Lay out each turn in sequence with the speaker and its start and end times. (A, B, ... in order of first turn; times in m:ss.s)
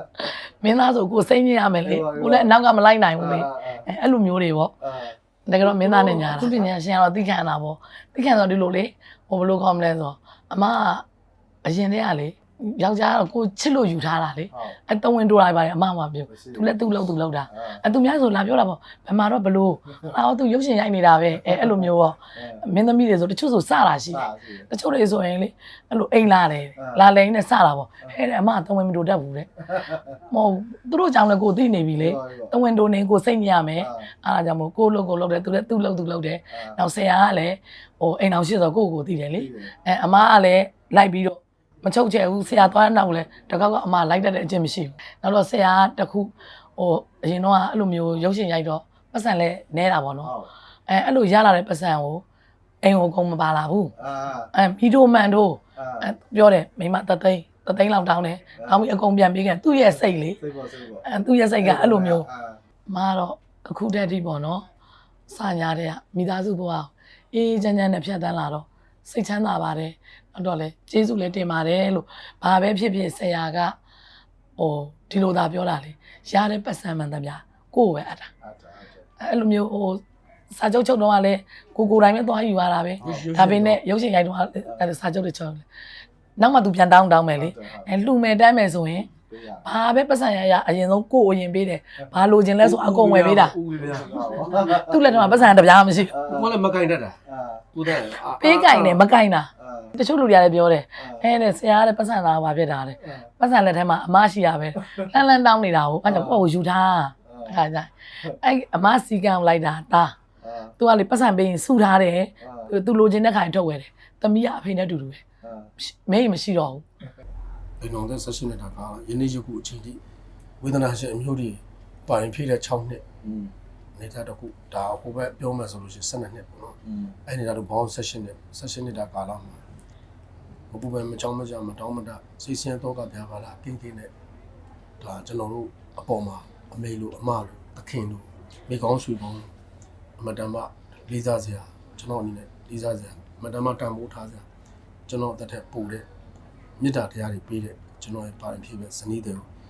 0:00.2-0:04.7 A
0:01.8-0:02.5 B
0:03.2-0:03.8 B
0:04.8-0:06.7 B
0:05.5-0:11.0 A
0:11.6-0:29.7 A
0:14.5-0:14.8 B
0:16.3-0:16.7 B
0:17.5-0:17.8 B
0:22.3-0:22.6 B
0:24.1-0:24.7 B
0:26.8-0:27.0 B
0:29.7-0:30.2 B
0:30.3-0:50.3 A
0:32.0-0:32.5 B
0:33.8-0:34.1 B
0:36.5-0:36.8 B
0:39.3-0:39.7 B
0:50.2-0:50.5 B
0:50.9-0:52.2 A
0:52.8-0:53.9 A
0:54.0-0:54.5 B
0:54.5-1:00.4 A
0:55.8-0:56.1 B
1:00.2-1:01.0 B
1:01.0-1:02.2 A
1:01.6-1:02.6 B
1:02.9-1:04.6 A
1:05.3-1:13.8 A
1:14.6-1:18.3 A
1:18.4-1:19.0 B
1:19.2-1:25.6 A
1:23.0-1:23.3 B
1:23.0-1:23.8 C
1:26.4-1:29.1 A
1:27.3-1:27.9 B
1:29.3-1:29.6 B
1:29.6-1:33.6 A
1:32.6-1:34.2 C
1:33.8-1:35.3 B
1:34.2-1:36.2 A
1:36.1-1:36.5 B
1:36.2-1:37.2 C
1:37.3-1:37.7 B
1:37.7-1:39.0 C
1:38.4-1:50.2 A
1:39.6-1:40.0 B
1:41.0-1:41.2 B
1:46.0-1:46.4 B
1:47.3-1:47.6 B
1:50.4-1:50.7 B
1:50.8-1:55.2 A
1:52.4-1:52.7 B
1:55.4-1:55.7 B
1:55.8-1:56.8 A
1:57.8-2:00.0 C
2:00.6-2:03.0 C
2:03.2-2:03.5 B
2:04.0-2:09.6 C
2:06.9-2:07.1 B
2:10.7-2:14.1 C
2:15.0-2:19.5 C
2:20.2-2:24.4 C
2:25.1-2:26.0 C
2:26.8-2:29.4 C